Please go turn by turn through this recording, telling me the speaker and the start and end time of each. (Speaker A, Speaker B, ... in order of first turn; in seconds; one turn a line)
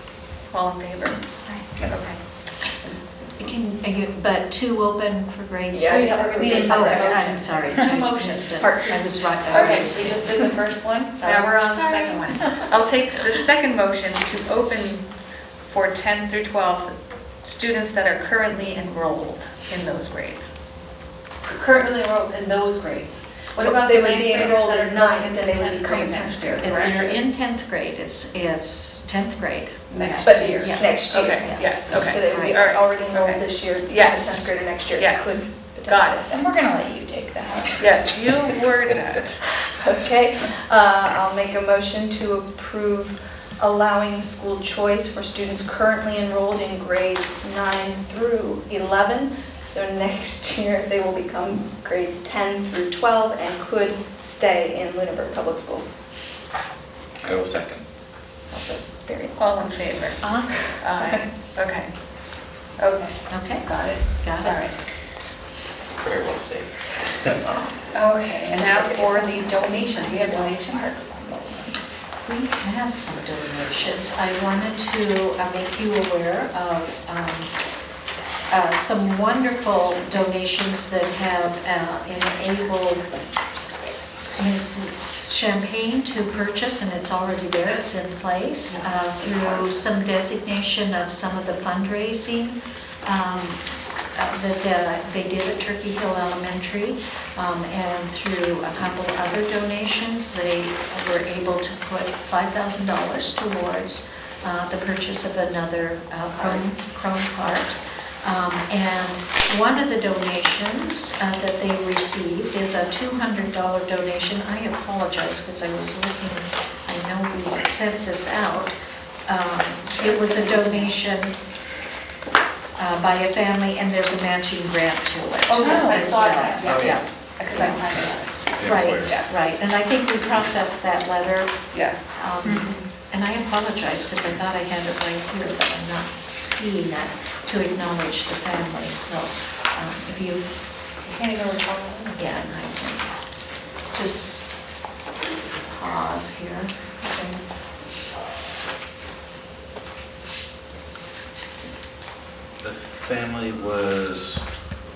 Speaker A: 0.5-3.5
Speaker B: 3.3-10.6
Speaker C: 5.7-7.5
Speaker A: 5.9-27.2
Speaker D: 6.5-7.8
Speaker C: 8.6-10.4
Speaker B: 11.2-11.6
Speaker C: 11.7-12.6
Speaker C: 23.6-27.1
Speaker B: 26.6-32.5
Speaker A: 29.9-36.3
Speaker C: 30.2-36.4
Speaker D: 36.3-37.8
Speaker A: 37.8-39.4
Speaker C: 39.6-56.0
Speaker E: 57.2-57.8
Speaker C: 58.5-61.2
Speaker A: 59.4-62.0
Speaker A: 62.8-64.9
Speaker B: 63.3-64.6
Speaker E: 66.0-67.5
Speaker A: 67.9-71.1
Speaker C: 68.5-71.6
Speaker B: 72.2-77.6
Speaker B: 78.5-83.1
Speaker B: 84.3-121.4
Speaker A: 119.9-120.9
Speaker B: 122.8-140.6
Speaker A: 125.5-129.3
Speaker D: 125.6-126.6
Speaker E: 126.6-127.8
Speaker E: 128.6-129.2
Speaker A: 131.7-132.0
Speaker D: 132.4-132.8
Speaker A: 141.0-142.4
Speaker B: 142.1-144.8
Speaker B: 145.6-146.9
Speaker A: 147.0-147.4
Speaker E: 152.6-154.7